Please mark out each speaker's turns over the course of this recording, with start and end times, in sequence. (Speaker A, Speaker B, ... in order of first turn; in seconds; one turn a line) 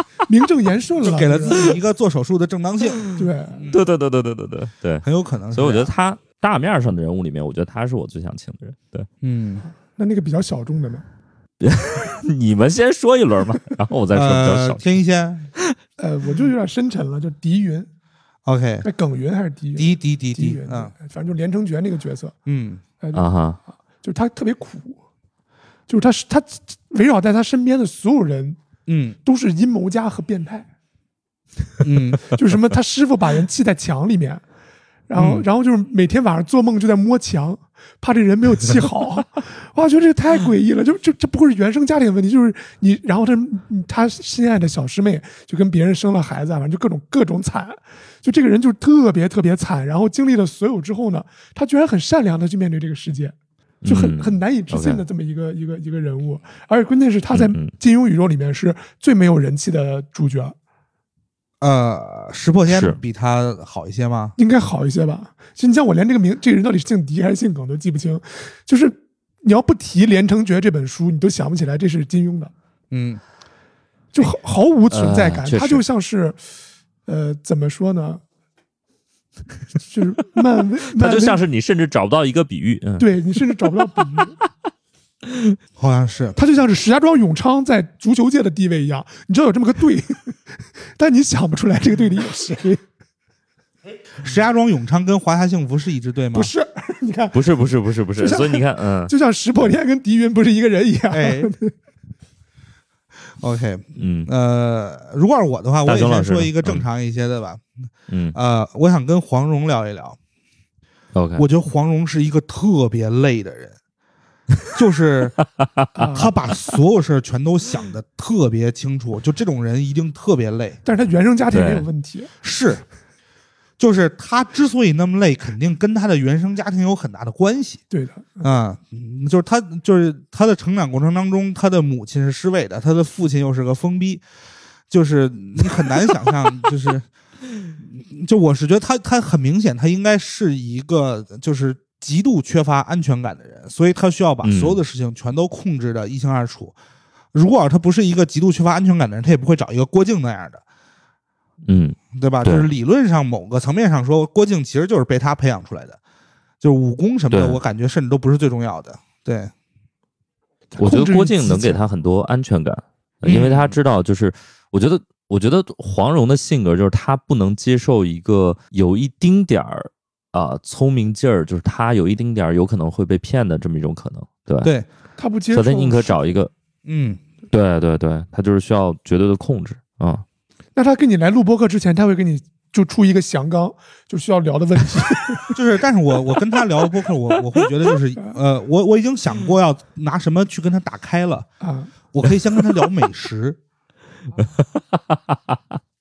Speaker A: 0.3-1.8
Speaker B: 1.0-3.8
Speaker A: 3.1-3.6
Speaker C: 3.7-9.1
Speaker B: 5.0-5.9
Speaker B: 9.2-9.7
Speaker A: 9.9-11.1
Speaker C: 11.6-14.9
Speaker B: 14.1-15.5
Speaker A: 16.0-17.9
Speaker B: 18.5-18.9
Speaker A: 18.8-22.4
Speaker B: 19.8-20.9
Speaker B: 22.5-22.8
Speaker A: 23.0-23.3
Speaker C: 23.1-23.6
Speaker A: 24.0-25.0
Speaker A: 25.9-28.6
Speaker B: 28.9-29.2
Speaker A: 29.2-30.7
Speaker B: 31.8-32.2
Speaker A: 32.3-34.4
Speaker A: 35.1-53.4
Speaker B: 35.2-35.5
Speaker C: 53.8-55.0
Speaker A: 53.9-60.6
Speaker C: 57.3-57.7
Speaker B: 61.6-64.3
Speaker C: 62.7-63.0
Speaker A: 64.4-72.5
Speaker B: 72.9-73.2
Speaker A: 74.1-76.4
Speaker C: 74.9-75.8
Speaker A: 77.1-78.2
Speaker A: 79.9-81.4
Speaker C: 81.0-83.1
Speaker A: 83.0-84.3
Speaker B: 85.8-86.4
Speaker A: 86.4-92.8
Speaker B: 94.2-96.5
Speaker A: 96.3-97.4
Speaker C: 97.3-99.1
Speaker A: 98.2-101.7
Speaker B: 101.1-101.5
Speaker B: 103.4-107.6
Speaker C: 104.0-104.3
Speaker C: 105.9-106.9
Speaker C: 108.1-108.4
Speaker B: 108.3-110.2
Speaker C: 111.1-111.5
Speaker B: 111.4-113.8
Speaker B: 114.8-115.4
Speaker C: 115.6-116.2
Speaker A: 116.0-116.3
Speaker B: 116.1-120.8
Speaker A: 120.8-122.3
Speaker C: 121.5-121.9
Speaker B: 122.4-122.8
Speaker B: 123.8-127.8
Speaker A: 127.9-128.4
Speaker B: 128.4-134.2
Speaker B: 134.9-137.1
Speaker B: 137.8-146.8
Speaker C: 144.4-144.8
Speaker B: 147.3-150.6
Speaker C: 151.7-152.7
Speaker B: 152.1-156.0
Speaker B: 156.6-159.5
Speaker C: 157.3-157.6
Speaker A: 160.7-161.8
Speaker C: 160.8-174.7
Speaker B: 163.2-163.8
Speaker A: 175.2-176.4
Speaker C: 175.5-176.5
Speaker B: 176.8-177.2
Speaker C: 177.5-180.2
Speaker A: 180.8-185.6
Speaker B: 185.5-191.5
Speaker A: 191.6-191.9
Speaker B: 192.1-193.6
Speaker C: 194.8-195.6